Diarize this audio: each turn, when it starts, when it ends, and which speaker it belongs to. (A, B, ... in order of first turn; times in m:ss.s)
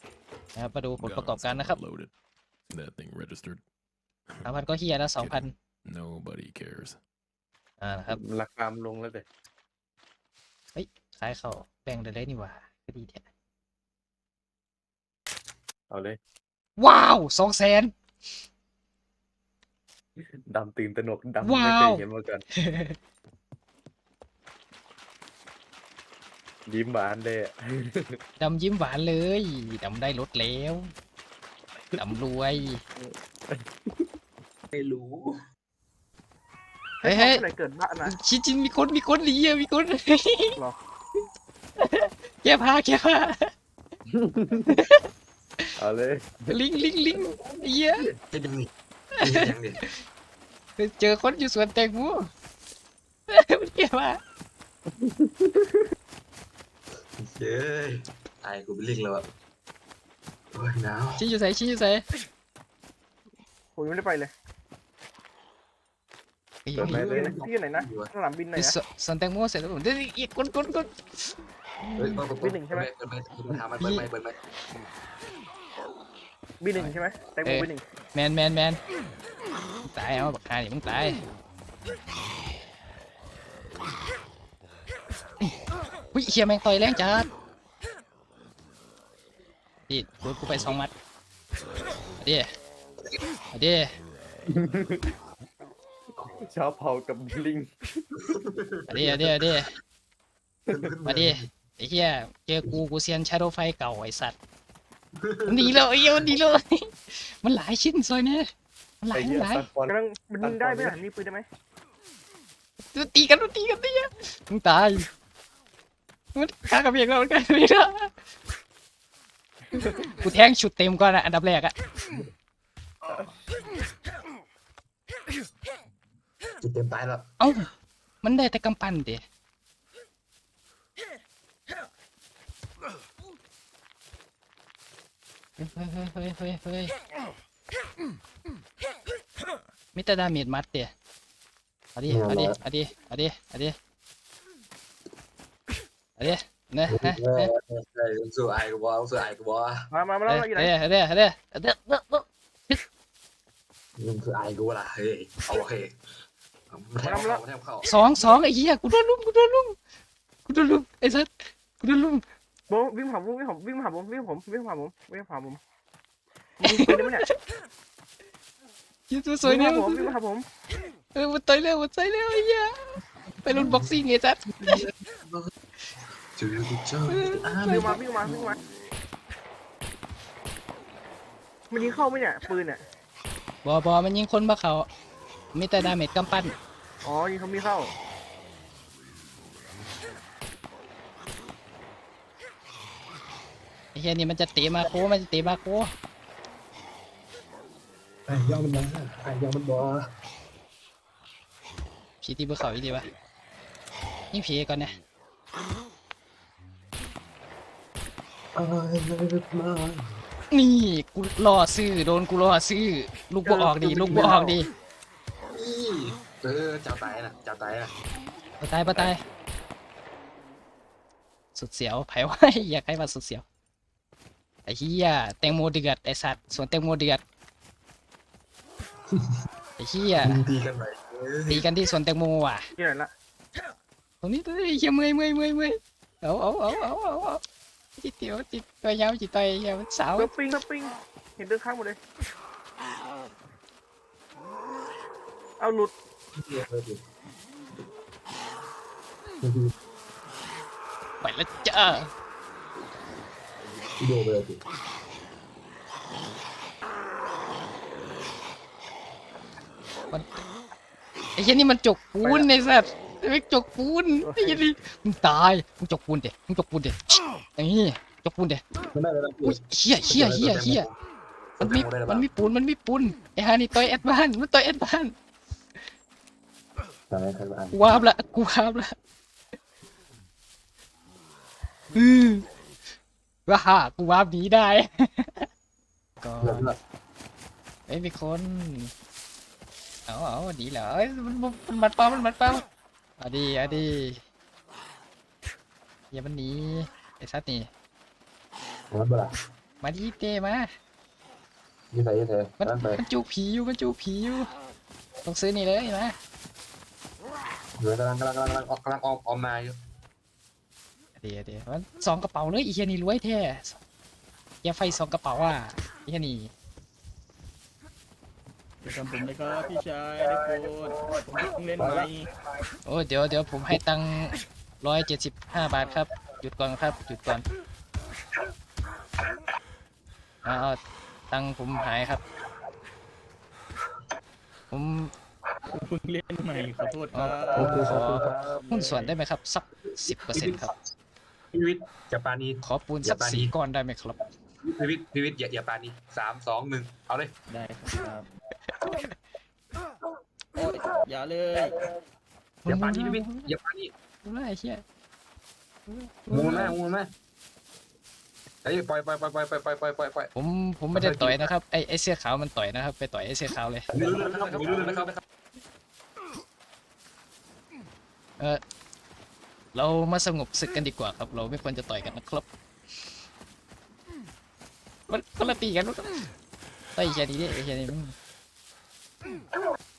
0:00.6-0:01.8 A
0:01.0-0:02.1 B
0:02.7-0:03.6 B
0:04.3-0:04.6 B
0:04.4-0:05.5 A
0:05.2-0:07.0 B
0:07.8-0:08.2 A
0:08.1-0:09.2 C
0:10.7-0:13.2 A
0:15.9-0:16.2 C
0:16.8-0:17.9 A
0:20.2-0:22.4 C
0:21.4-0:22.0 A
0:22.6-0:23.0 A
0:26.7-0:28.2 C
0:28.4-0:30.9 A
0:32.0-0:32.8 A
0:33.0-0:34.0 C
0:34.7-0:35.3 D
0:37.0-0:38.1 E
0:37.0-0:37.4 A
0:38.0-0:40.6 A
0:41.8-0:43.5 A
0:44.1-0:44.8 C
0:44.7-0:45.0 A
0:45.8-0:46.6 C
0:46.5-0:48.0 A
0:48.2-0:49.8 D
0:49.2-0:49.9 A
0:50.8-0:52.3 A
0:53.3-0:54.2 A
0:55.0-0:55.6 C
0:57.2-0:59.2 D
1:00.5-1:01.2 D
1:01.2-1:02.0 A
1:03.8-1:04.3 E
1:06.6-1:07.0 A
1:06.8-1:08.1 D
1:06.8-1:07.3 C
1:06.8-1:08.7 E
1:08.6-1:11.3 A
1:11.8-1:12.2 A
1:12.0-1:14.4 D
1:12.4-1:12.9 E
1:13.5-1:14.1 A
1:16.6-1:17.8 E
1:16.8-1:18.8 A
1:19.9-1:21.2 A
1:26.1-1:27.3 A
1:29.9-1:30.9 A
1:32.2-1:32.5 A
1:33.5-1:33.9 A
1:34.5-1:35.1 C
1:36.2-1:37.7 C
1:38.9-1:39.7 A
1:40.7-1:41.4 D
1:41.0-1:44.4 A
1:45.2-1:45.8 D
1:45.5-1:48.4 A
1:49.0-1:49.6 A
1:49.1-1:51.0 C
1:49.9-1:51.4 E
1:52.9-1:55.1 A
1:56.3-1:58.1 A
2:00.2-2:01.7 A
2:06.6-2:07.2 D
2:07.4-2:07.7 A
2:08.2-2:09.2 A
2:15.6-2:16.9 A
2:19.9-2:20.9 A
2:21.9-2:23.7 A
2:22.1-2:22.6 D
2:26.2-2:27.5 A
2:26.9-2:29.8 D
2:29.9-2:30.7 E
2:30.3-2:32.8 A
2:34.0-2:35.9 D
2:36.7-2:37.9 D
2:37.0-2:37.4 E
2:37.8-2:39.8 A
2:40.4-2:42.2 A
2:42.7-2:45.6 E
2:46.6-2:47.2 E
2:46.6-2:47.3 A
2:49.1-2:50.1 A
2:49.4-2:50.4 E
2:51.1-2:52.8 A
2:53.4-2:54.8 A
2:53.5-2:54.0 D
2:54.6-2:55.5 D
2:56.4-2:58.0 D
2:57.1-2:57.9 A
2:57.7-2:58.6 E
3:01.7-3:02.8 E
3:03.6-3:04.8 A
3:05.5-3:06.5 A
3:07.0-3:07.9 E
3:13.9-3:15.9 A
3:18.3-3:20.0 D
3:22.2-3:23.1 A
3:24.3-3:25.0 A
3:28.5-3:30.0 D
3:30.5-3:34.7 A
3:33.4-3:34.6 E
3:34.1-3:34.4 D
3:35.5-3:37.9 D
3:38.6-3:39.2 A
3:41.5-3:43.4 A
3:44.6-3:47.2 A
3:49.8-3:50.4 A
3:50.2-3:51.6 D
3:51.5-3:52.6 A
3:52.8-3:53.1 E
3:54.2-3:57.4 A
3:58.0-4:00.3 A
4:00.1-4:02.0 E
4:05.6-4:05.9 E
4:06.4-4:07.0 D
4:09.4-4:09.7 D
4:11.2-4:12.1 A
4:14.0-4:14.6 D
4:20.1-4:20.4 A
4:21.4-4:28.6 A
4:24.2-4:24.6 E
4:28.9-4:30.9 D
4:29.4-4:30.9 A
4:31.6-4:32.3 D
4:31.6-4:35.1 A
4:37.1-4:37.8 D
4:37.7-4:38.9 A
4:41.9-4:42.4 A
4:43.5-4:45.5 A
4:46.2-4:46.7 A
4:46.4-4:46.8 D
4:47.9-4:48.9 A
4:50.1-4:52.6 A
4:53.2-4:54.2 A
4:56.1-4:57.7 A
4:58.9-4:59.3 D
4:59.8-5:00.7 A
5:01.9-5:03.0 D
5:02.6-5:04.5 A
5:05.2-5:06.1 A
5:07.8-5:09.7 D
5:11.2-5:13.8 A
5:14.6-5:16.5 A
5:18.8-5:22.3 F
5:21.8-5:22.1 D
5:22.8-5:27.4 A
5:30.4-5:30.8 A
5:31.3-5:32.2 A
5:34.7-5:35.1 A
5:35.7-5:39.1 F
5:37.1-5:40.7 A
5:37.5-5:38.5 D
5:40.3-5:40.7 D
5:41.5-5:43.5 D
5:42.6-5:44.2 A
5:44.6-5:47.3 D
5:47.5-5:48.3 F
5:50.5-5:51.9 F
5:52.6-5:53.5 A
5:52.6-5:53.9 D
5:54.2-5:54.8 A
5:55.9-5:56.8 A
5:56.3-5:57.1 D
5:58.6-6:00.3 D
6:00.3-6:03.9 A
6:00.9-6:01.4 D
6:03.9-6:05.2 D
6:09.7-6:12.5 A
6:15.1-6:16.3 A
6:17.0-6:18.1 A